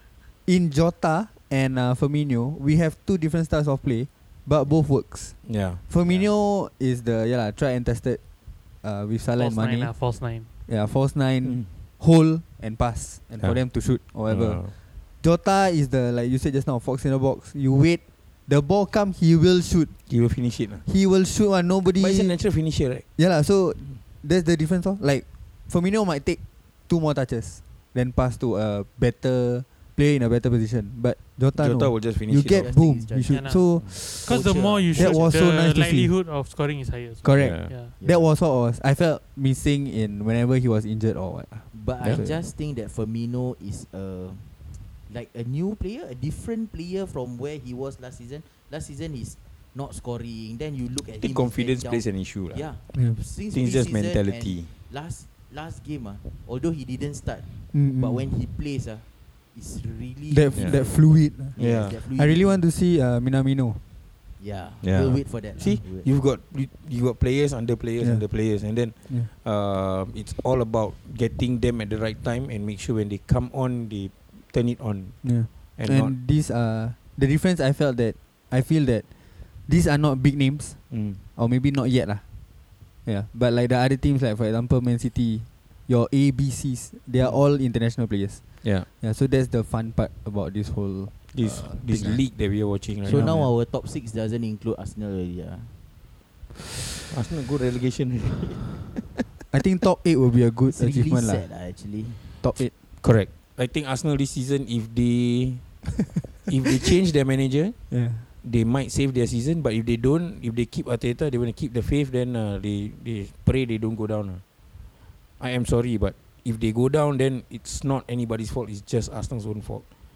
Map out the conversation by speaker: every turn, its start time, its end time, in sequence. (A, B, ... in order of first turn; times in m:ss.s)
0:00.5-0:08.2 A
0:05.4-0:06.3 B
0:08.8-0:10.1 A
0:09.4-0:10.5 C
0:10.7-0:20.0 A
0:11.4-0:11.7 B
0:13.4-0:14.7 B
0:20.1-0:20.8 B
0:20.9-0:22.4 A
0:22.0-0:23.0 B
0:23.2-0:34.3 A
0:31.6-0:32.8 B
0:32.5-0:35.2 D
0:33.3-0:37.9 C
0:34.9-0:36.1 A
0:37.2-0:42.5 A
0:37.4-0:37.7 B
0:38.0-0:38.3 D
0:41.7-0:44.5 D
0:45.1-1:02.6 D
0:51.2-0:52.7 B
0:52.9-0:53.2 A
0:53.5-0:54.7 B
0:57.7-0:58.3 A
1:00.3-1:03.8 A
1:00.6-1:00.8 B
1:01.6-1:02.0 B
1:04.4-1:06.1 D
1:04.8-1:16.2 B
1:08.0-1:08.5 A
1:15.2-1:19.0 A
1:19.7-1:22.2 A
1:20.9-1:21.2 B
1:23.0-1:32.3 A
1:31.3-1:33.4 B
1:33.0-1:35.7 D
1:33.1-1:33.5 A
1:37.1-1:38.7 B
1:39.5-1:41.5 A
1:40.7-1:42.2 D
1:42.4-1:42.7 A
1:43.0-1:45.6 B
1:46.5-1:54.4 B
1:47.9-1:48.2 A
1:55.4-1:59.9 B